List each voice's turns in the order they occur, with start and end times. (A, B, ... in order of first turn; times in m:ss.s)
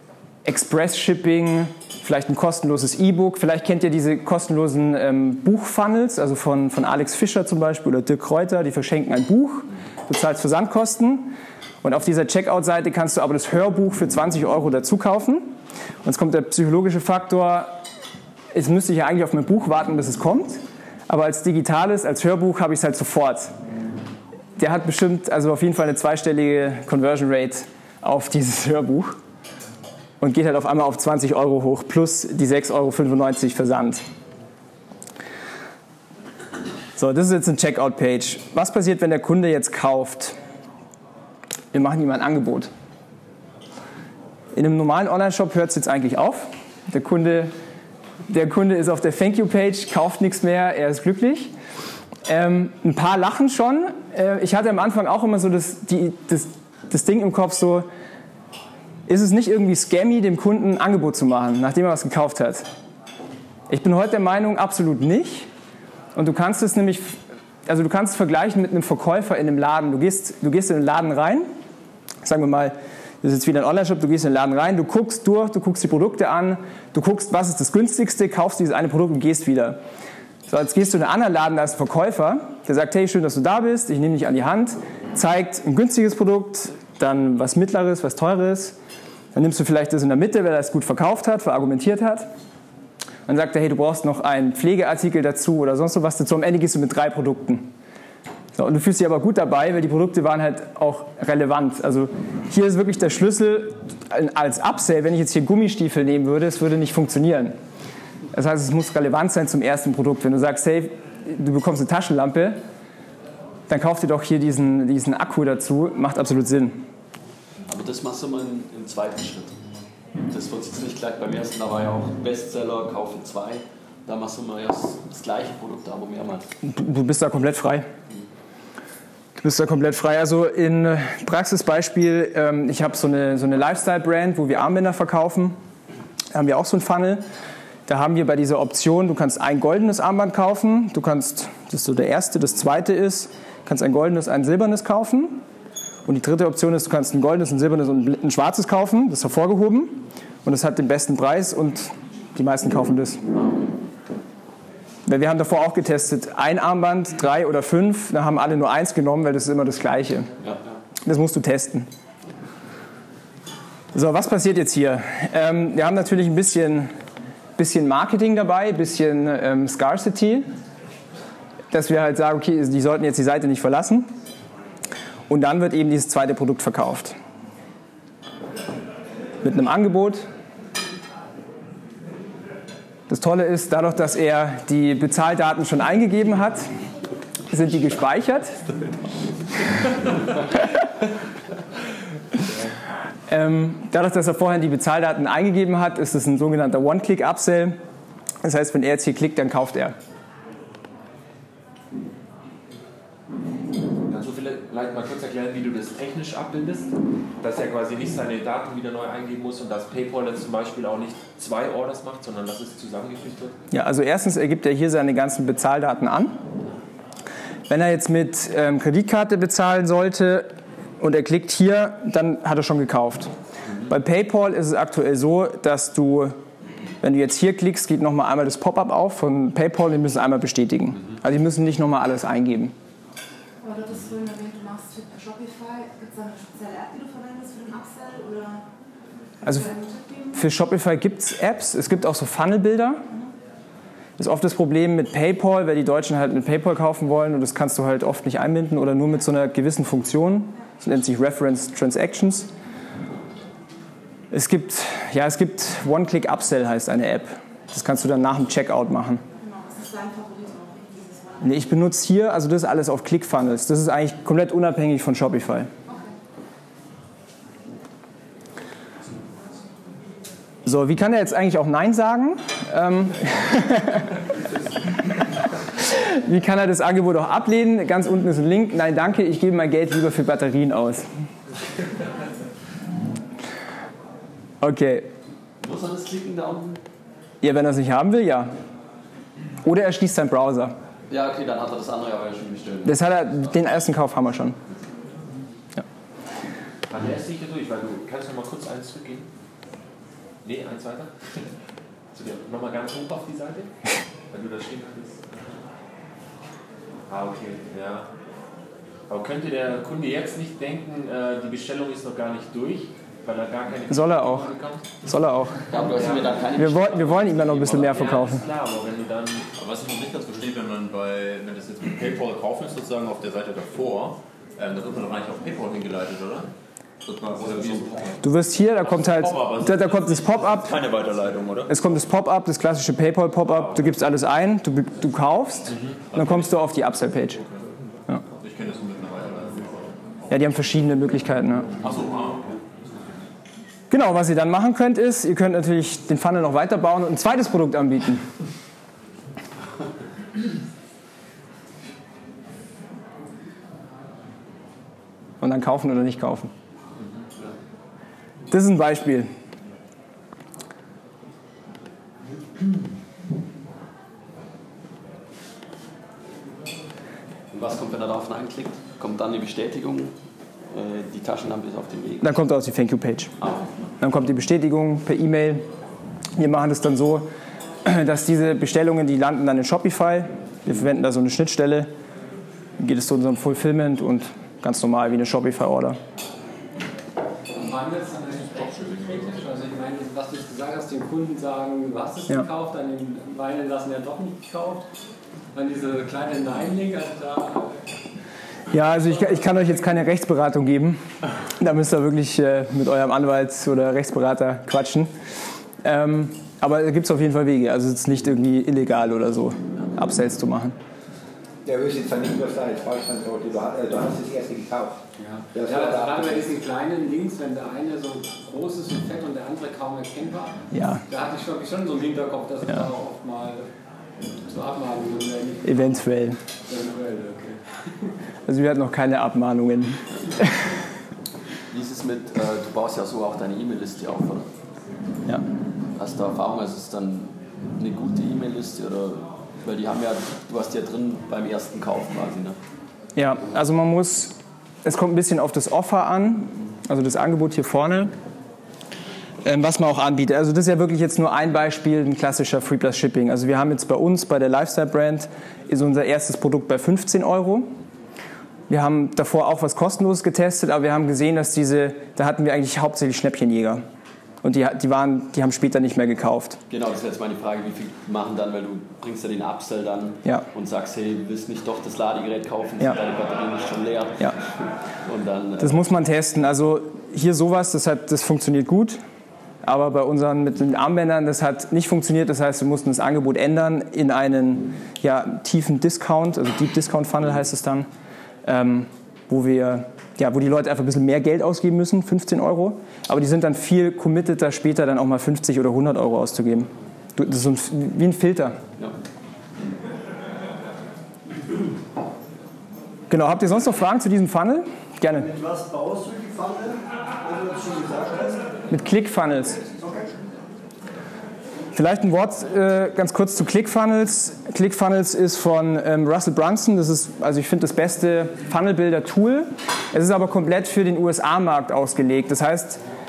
0:00.4-0:17.8 A
0:18.5-0:23.5 A
0:24.6-0:29.2 A
0:30.2-0:34.0 A
0:37.0-0:40.4 A
0:41.7-0:42.7 A
0:44.5-0:47.5 A
0:48.3-0:51.5 A
0:52.2-0:57.9 A
0:59.1-1:02.7 A
1:03.7-1:05.5 A
1:06.2-1:11.5 A
1:12.2-1:19.8 A
1:20.5-1:28.8 A
1:29.3-1:32.3 A
1:33.3-1:37.7 A
1:38.6-1:47.5 A
1:48.3-1:52.6 A
1:53.7-1:56.8 A
1:57.7-1:59.6 B
2:00.2-2:06.5 B
2:06.6-2:07.9 A
2:09.4-2:15.6 A
2:16.3-2:17.2 A
2:17.9-2:25.4 A
2:26.0-2:33.3 A
2:33.4-2:33.6 B
2:35.0-2:40.3 A
2:40.4-2:40.8 B
2:41.0-2:41.9 A
2:43.9-2:46.9 A
2:47.6-2:50.4 A
2:51.7-2:54.1 A
2:55.3-2:57.2 A
2:59.4-3:00.2 A
3:03.1-3:06.7 A
3:07.5-3:08.6 A
3:13.3-3:17.8 A
3:18.4-3:20.0 A
3:24.1-3:33.6 C
3:33.7-3:36.4 A
3:37.7-3:43.3 A
3:43.8-3:46.4 A
3:47.0-3:52.7 A
3:53.6-3:58.7 D
3:59.4-4:00.3 D
3:59.4-3:59.7 A
4:00.3-4:03.1 A
4:04.2-4:12.5 A
4:14.3-4:19.2 A
4:19.4-4:21.5 D
4:21.4-4:25.7 A
4:25.8-4:26.1 D
4:30.6-4:34.1 A
4:35.8-4:41.1 A
4:44.6-4:45.1 A
4:45.6-4:46.8 B
4:47.4-4:48.5 A
4:49.6-4:50.8 A
4:51.1-4:53.0 B
4:52.8-4:54.6 A
4:56.9-4:59.3 C
5:00.4-5:01.4 C
5:02.1-5:03.7 C
5:04.3-5:05.2 C
5:07.1-5:08.1 C
5:09.1-5:14.8 C
5:13.9-5:14.5 A
5:15.0-5:15.6 A
5:15.7-5:18.2 B
5:15.8-5:16.4 C
5:16.5-5:18.4 A
5:17.7-5:19.5 C
5:19.6-5:26.5 E
5:27.0-5:28.2 E
5:28.2-5:30.8 A
5:28.7-5:32.0 E
5:31.7-5:37.4 A
5:36.1-5:36.5 E
5:38.3-5:40.0 E
5:40.3-5:41.7 A
5:41.8-5:42.6 E
5:43.9-5:48.3 A
5:55.4-5:56.5 A
5:58.5-5:59.3 A
6:07.5-6:10.2 B
6:10.7-6:12.3 B
6:12.2-6:13.3 A
6:13.4-6:13.8 B
6:14.0-6:15.6 A
6:16.4-6:17.3 A
6:17.8-6:21.9 A
6:22.8-6:26.0 A
6:27.5-6:34.8 F
6:35.5-6:37.8 F
6:38.7-6:41.0 A
6:38.8-6:39.7 F
6:41.6-6:45.1 A
6:45.8-6:50.8 A
6:51.6-6:55.0 G
6:55.2-7:03.7 F
6:55.5-6:56.5 G
7:00.7-7:01.0 A
7:04.4-7:05.7 F
7:05.6-7:06.4 A
7:06.7-7:08.1 F
7:08.4-7:10.5 A
7:11.7-7:14.5 B
7:15.9-7:22.6 B
7:23.2-7:28.1 A
7:29.4-7:37.7 A
7:38.7-7:43.8 A
7:44.4-7:46.6 A
7:46.7-7:55.8 B
7:55.6-7:59.0 A
7:59.6-8:07.9 A
8:08.4-8:18.6 A
8:23.1-8:25.3 A
8:25.2-8:28.6 H
8:28.7-8:29.6 A
8:29.8-8:30.1 H
8:31.7-8:42.8 A